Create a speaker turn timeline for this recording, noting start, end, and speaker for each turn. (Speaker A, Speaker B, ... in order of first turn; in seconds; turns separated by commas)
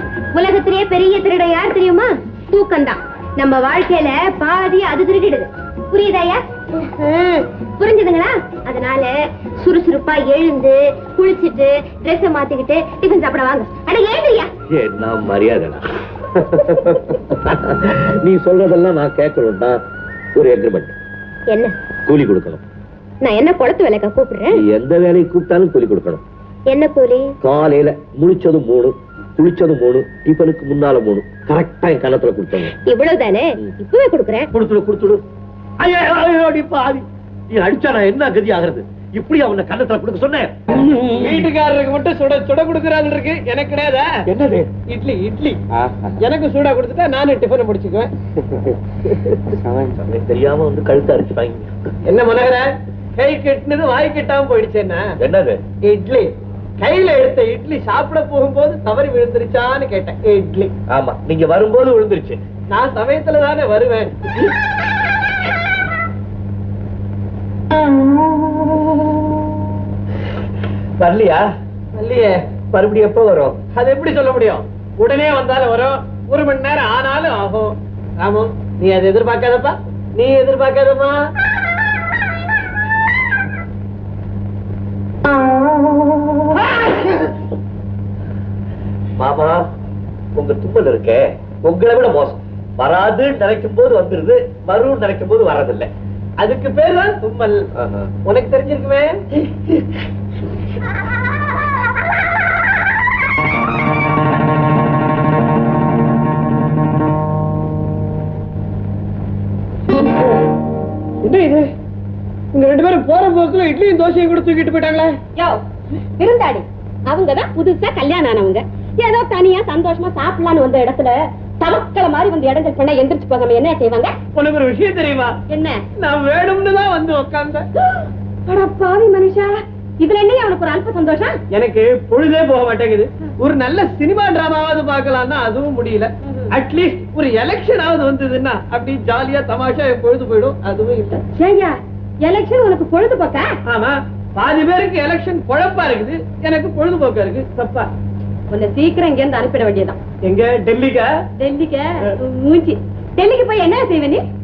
Speaker A: 0.3-14.5, Speaker B: 14.7-15.8, Speaker B: 16.3-19.8, Speaker B: 20.4-20.9, Speaker B: 22.1-22.6, Speaker A: 23.2-24.6, Speaker B: 24.5-26.2, Speaker A: 26.7-27.3, Speaker B: 27.4-32.7, Speaker A: 32.9-34.5, Speaker B: 34.5-35.2, Speaker B: 35.8-40.8, Speaker C: 41.1-44.1, Speaker B: 44.3-44.7, Speaker C: 44.9-45.6, Speaker B: 45.8-46.2, Speaker C: 46.2-48.1, Speaker C: 49.1-49.4, Speaker B: 49.7-51.8, Speaker C: 52.0-55.1, Speaker B: 55.2-55.6, Speaker C: 55.8-60.7, Speaker B: 60.9-62.4, Speaker C: 62.7-64.2, Speaker B: 71.0-71.5, Speaker C: 71.9-72.4, Speaker B: 72.7-73.6, Speaker C: 73.7-81.2, Speaker C: 86.6-87.2, Speaker B: 89.2-89.6, Speaker B: 90.3-95.9, Speaker C: 96.4-97.7, Speaker B: 97.8-98.1, Speaker C: 98.2-99.8, Speaker C: 111.2-111.7, Speaker C: 112.5-115.2, Speaker D: 115.4-115.6, Speaker D: 116.2-124.2, Speaker C: 124.3-125.3, Speaker D: 125.5-125.8, Speaker C: 126.0-127.7, Speaker D: 128.5-131.4, Speaker C: 131.5-141.2, Speaker D: 136.2-136.5, Speaker D: 141.3-143.5, Speaker C: 143.7-147.9, Speaker D: 148.5-150.0, Speaker C: 150.2-151.1, Speaker D: 151.4-154.2